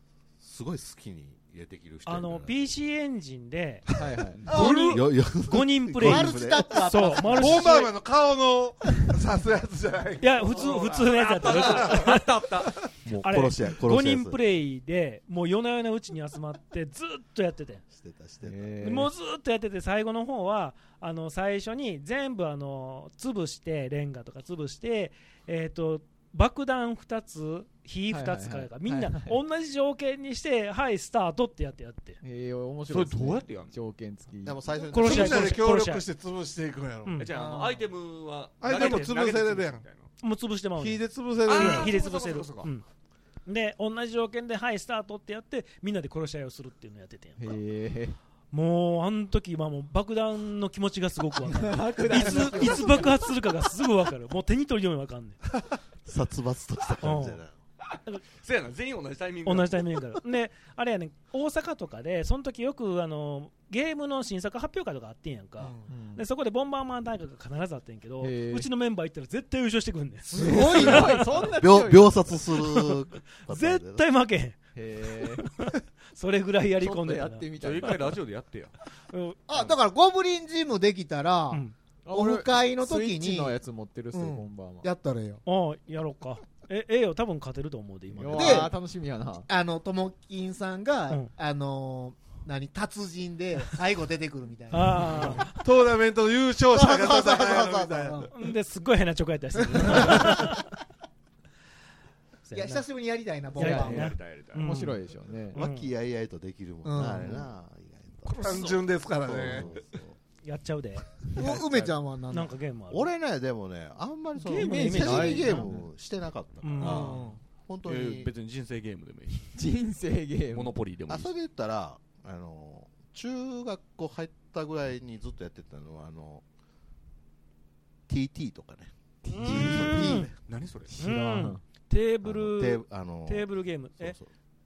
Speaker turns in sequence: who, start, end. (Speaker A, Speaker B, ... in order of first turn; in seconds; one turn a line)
Speaker A: 0.4-2.8
Speaker B: 2.0-3.8
Speaker C: 4.0-4.7
Speaker D: 4.3-4.8
Speaker B: 4.5-7.9
Speaker E: 4.5-5.0
Speaker A: 4.5-7.2
Speaker E: 6.0-7.9
Speaker F: 7.3-12.1
Speaker B: 10.2-12.3
Speaker D: 11.1-12.8
Speaker A: 13.0-14.4
Speaker B: 13.1-17.8
Speaker A: 17.9-18.7
Speaker C: 18.4-19.1
Speaker B: 18.8-32.2
Speaker C: 28.1-29.4
Speaker C: 32.2-34.9
Speaker D: 32.9-33.9
Speaker A: 34.4-35.6
Speaker B: 34.9-36.0
Speaker F: 34.9-37.2
Speaker D: 37.1-40.1
Speaker E: 37.3-37.9
Speaker F: 38.6-39.8
Speaker B: 40.2-42.9
Speaker F: 40.8-42.0
Speaker D: 41.5-42.7
Speaker B: 43.5-47.6
Speaker C: 47.4-48.2
Speaker B: 48.5-55.4
Speaker C: 51.4-53.3
Speaker A: 56.0-57.5
Speaker B: 57.0-57.4
Speaker D: 58.2-60.0
Speaker B: 59.4-71.3
Speaker E: 65.6-65.9
Speaker C: 65.9-66.2
Speaker C: 68.2-68.7
Speaker E: 70.2-71.2
Speaker C: 70.3-72.4
Speaker A: 70.8-74.0
Speaker B: 72.5-74.6
Speaker C: 74.7-75.5
Speaker B: 75.2-78.0
Speaker C: 76.8-78.2
Speaker D: 77.6-78.7
Speaker B: 79.0-79.4
Speaker E: 79.5-83.6
Speaker B: 81.5-81.8
Speaker C: 82.0-84.9
Speaker E: 84.1-85.4
Speaker B: 85.4-88.7
Speaker C: 88.1-89.5
Speaker E: 88.3-88.7
Speaker E: 89.5-95.4
Speaker B: 94.7-95.7
Speaker F: 95.3-98.3
Speaker E: 96.7-98.3
Speaker B: 98.3-100.6
Speaker E: 99.7-100.4
Speaker F: 100.0-100.3
Speaker B: 102.4-103.0
Speaker E: 102.5-104.1
Speaker C: 103.5-105.6
Speaker B: 103.5-105.0
Speaker D: 103.7-104.7
Speaker B: 105.5-105.9
Speaker A: 105.5-110.2
Speaker E: 106.8-107.5
Speaker F: 108.4-109.7
Speaker B: 110.4-111.4
Speaker E: 111.3-112.5
Speaker B: 112.3-113.1
Speaker A: 112.9-118.3
Speaker C: 114.3-115.8
Speaker B: 114.4-115.8
Speaker B: 116.6-117.2
Speaker E: 116.8-117.4
Speaker D: 117.8-119.7
Speaker C: 119.5-120.8
Speaker D: 120.5-121.3
Speaker A: 121.1-126.4
Speaker A: 128.1-130.3
Speaker C: 129.2-130.2
Speaker B: 129.3-130.3
Speaker D: 129.6-131.0
Speaker C: 130.8-131.6
Speaker B: 131.0-134.2
Speaker A: 132.2-134.3